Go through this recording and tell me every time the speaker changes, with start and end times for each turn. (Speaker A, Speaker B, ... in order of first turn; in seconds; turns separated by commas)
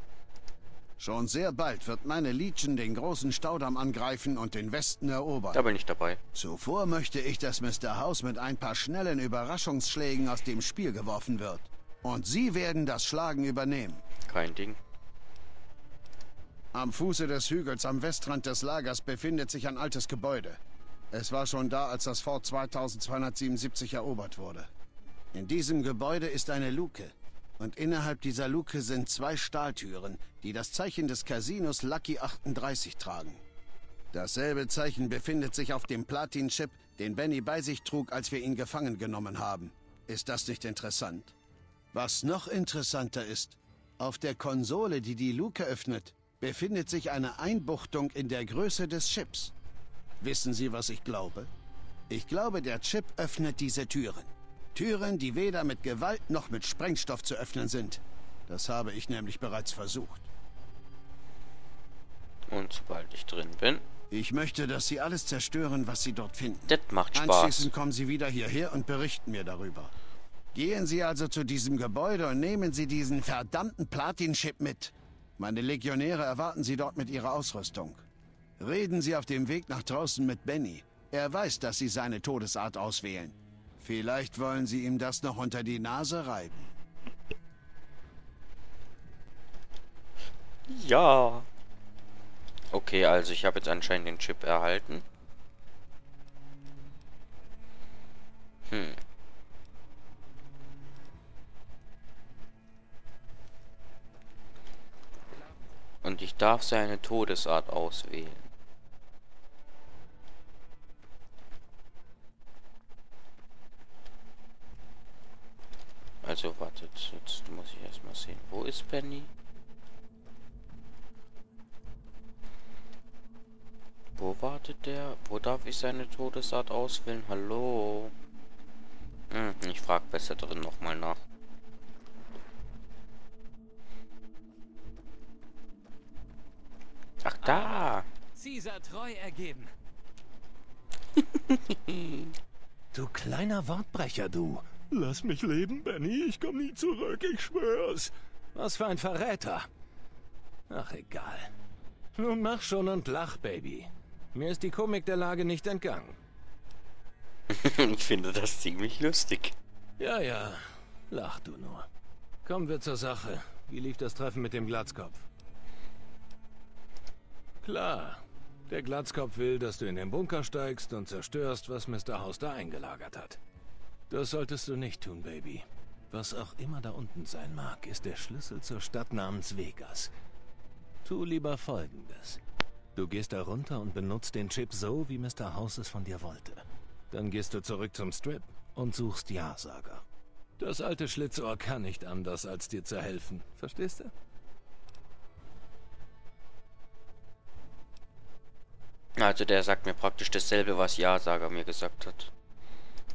Speaker A: 1.0-5.6, Speaker B: 5.5-6.2, Speaker A: 6.3-14.0, Speaker B: 14.3-14.8, Speaker A: 16.7-20.6, Speaker A: 21.1-24.7, Speaker A: 25.3-33.4, Speaker A: 34.1-41.3, Speaker A: 41.9-49.5, Speaker A: 50.2-51.5, Speaker A: 52.1-60.3, Speaker B: 62.5-63.8, Speaker A: 64.1-69.9, Speaker B: 66.7-67.7, Speaker A: 70.5-78.0, Speaker A: 78.6-86.7, Speaker B: 90.7-91.5, Speaker B: 92.7-95.0, Speaker B: 98.7-99.0, Speaker B: 106.0-108.5, Speaker B: 116.2-119.3, Speaker B: 124.2-128.1, Speaker B: 129.3-131.2, Speaker B: 137.2-138.1, Speaker C: 137.4-139.7, Speaker B: 141.5-142.3, Speaker D: 142.9-149.7, Speaker D: 150.7-151.5, Speaker D: 152.2-156.2, Speaker B: 157.5-159.6, Speaker D: 160.0-161.9, Speaker D: 162.4-165.3, Speaker D: 167.6-173.4, Speaker D: 174.1-180.1, Speaker D: 181.0-182.4, Speaker D: 182.9-190.0, Speaker D: 190.6-194.1, Speaker B: 199.2-202.3